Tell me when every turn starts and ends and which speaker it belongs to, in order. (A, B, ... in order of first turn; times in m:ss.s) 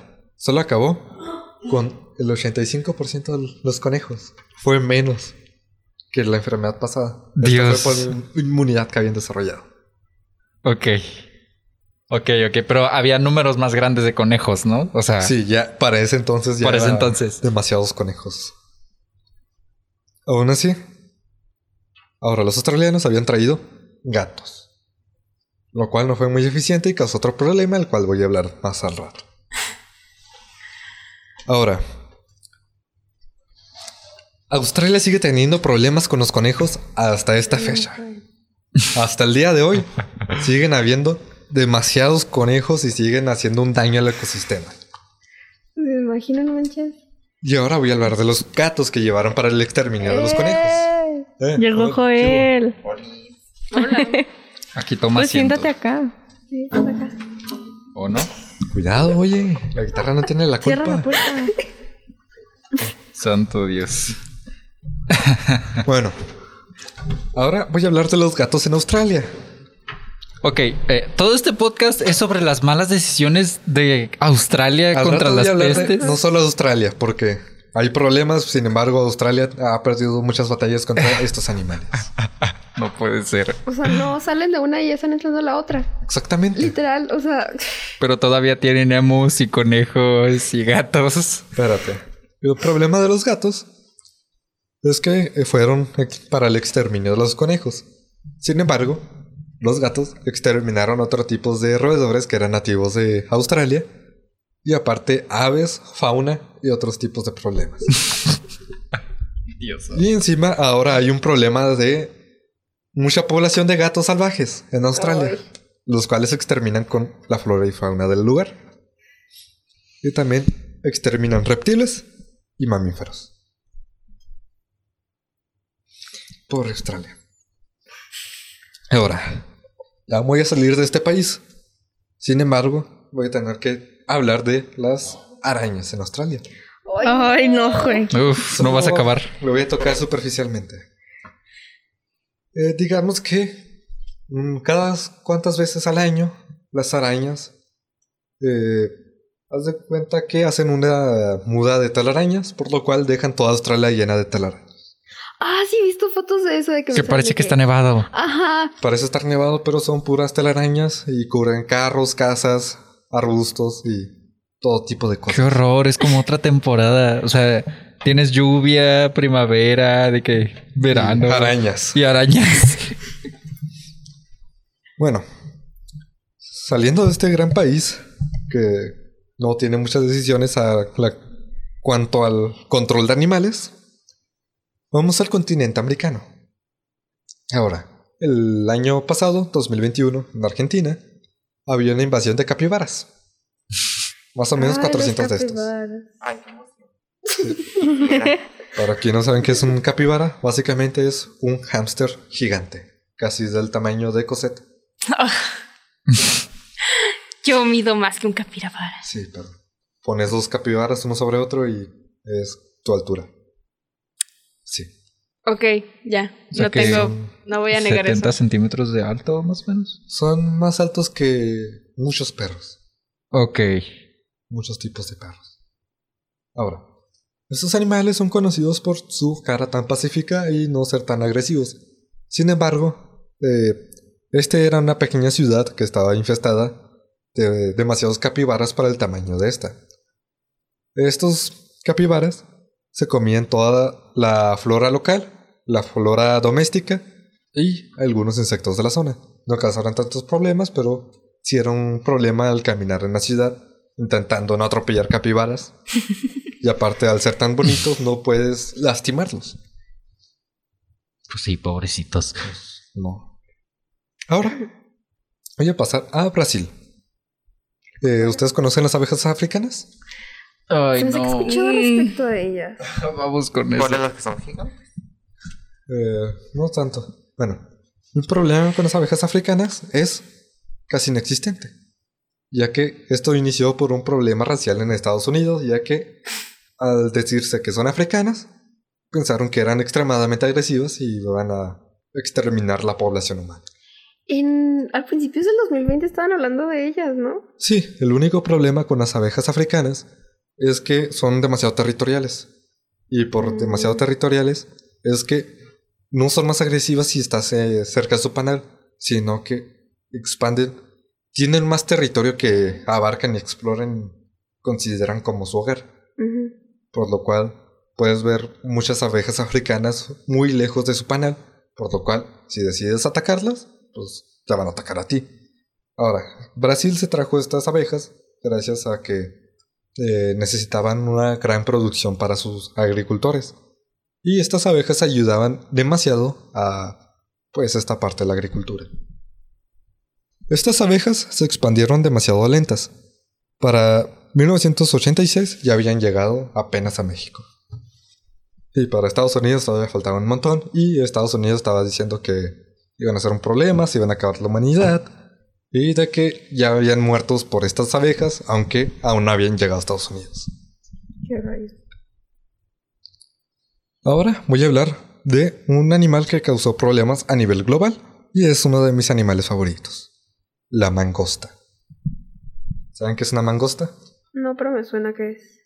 0:00.4-0:01.1 A
0:01.6-0:05.3 A
0:06.1-0:09.6 A
0:07.4-0:08.1 B
0:10.6-0:11.2 B
0:12.1-0:15.3 B
0:15.2-0:18.5 A
0:16.6-0:17.4 B
0:20.2-0:20.8 A
0:22.2-0:24.6 A
0:25.7-0:29.2 A
0:31.4-0:31.8 A
0:34.5-0:38.0 A
0:37.5-0:38.2 C
0:38.9-0:44.7 A
0:45.8-0:46.9 C
0:47.4-0:52.5 A
0:50.0-0:50.9 C
0:51.0-0:52.8 D
0:52.8-0:53.3 E
0:53.7-0:54.2 F
0:53.8-0:54.2 D
0:54.7-0:55.7 B
0:55.1-0:56.1 D
0:56.5-0:57.2 C
0:57.9-0:58.3 B
0:58.7-1:01.2 A
1:00.6-1:01.5 D
1:03.1-1:04.2 B
1:05.1-1:05.8 B
1:05.8-1:06.2 A
1:07.3-1:09.3 A
1:10.4-1:16.1 B
1:14.9-1:22.1 A
1:15.7-1:16.1 C
1:22.7-1:23.6 B
1:23.6-1:25.9 C
1:26.0-1:26.7 A
1:26.6-1:27.8 C
1:28.0-1:31.5 B
1:31.5-1:33.7 A
1:34.8-1:37.8 A
1:38.4-1:39.0 A
1:39.6-1:43.9 A
1:44.6-1:48.0 A
1:49.6-1:50.0 B
1:49.9-1:52.1 A
1:52.9-1:58.5 A
1:55.0-1:55.4 C
2:00.0-2:02.0 A
2:02.6-2:03.3 A
2:06.5-2:07.1 A
2:08.9-2:09.4 A
2:10.1-2:11.4 A
2:12.2-2:16.5 A
2:16.8-2:18.2 C
2:17.0-2:18.1 D
2:18.1-2:19.3 B
2:18.5-2:20.8 A
2:22.5-2:23.7 A
2:24.3-2:27.5 A
2:28.4-2:28.9 A
2:29.5-2:34.6 A
2:35.4-2:37.6 C
2:36.9-2:38.1 B
2:38.1-2:38.7 C
2:38.8-2:45.6 A
2:45.3-2:53.0 B
2:50.9-2:52.0 A
2:55.0-2:55.2 A
2:56.4-3:01.2 A
3:01.8-3:03.7 A
3:04.9-3:06.3 A
3:07.5-3:11.0 A
3:11.7-3:13.1 A
3:14.3-3:15.7 A
3:14.6-3:16.1 C
3:16.2-3:16.7 E
3:17.9-3:18.4 E
3:18.8-3:24.6 A
3:25.1-3:25.5 F
3:27.4-3:29.0 F
3:29.0-3:33.3 A
3:34.6-3:34.9 A
3:35.4-3:38.4 F
3:36.5-3:37.1 B
3:36.8-3:37.1 A
3:37.7-3:40.0 B
3:40.1-3:42.8 A
3:43.3-3:43.9 B
3:44.5-3:45.5 A
3:46.5-3:46.8 A
3:47.5-3:51.8 A
3:52.3-3:56.8 A
3:57.3-3:59.8 A
4:00.9-4:15.7 A
4:16.6-4:19.6 A
4:21.3-4:22.4 B
4:22.4-4:23.3 A
4:24.3-4:24.7 A
4:25.6-4:26.7 A
4:28.0-4:29.9 A
4:30.7-4:31.6 B
4:31.0-4:32.8 C
4:31.4-4:32.2 F
4:32.8-4:34.0 B
4:33.7-4:34.8 E
4:35.9-4:37.6 A
4:38.1-4:40.2 A
4:40.9-4:41.7 A
4:42.5-4:46.2 A
4:46.8-4:48.5 A
4:49.1-4:53.6 A
4:54.3-4:57.4 C
4:57.6-5:02.5 A
5:03.1-5:05.6 A
5:03.4-5:04.0 C
5:06.1-5:10.8 A
5:11.3-5:15.9 A
5:16.2-5:16.5 C
5:16.9-5:25.3 A
5:26.0-5:29.4 A
5:30.0-5:33.5 A
5:34.2-5:37.0 A
5:37.5-5:38.9 A
5:40.5-5:42.9 A
5:43.6-5:47.4 A
5:48.7-5:55.1 A
5:55.7-6:00.5 A
6:01.2-6:01.7 C
6:04.0-6:10.1 A
6:10.7-6:11.5 A
6:12.9-6:13.9 A
6:14.3-6:15.5 C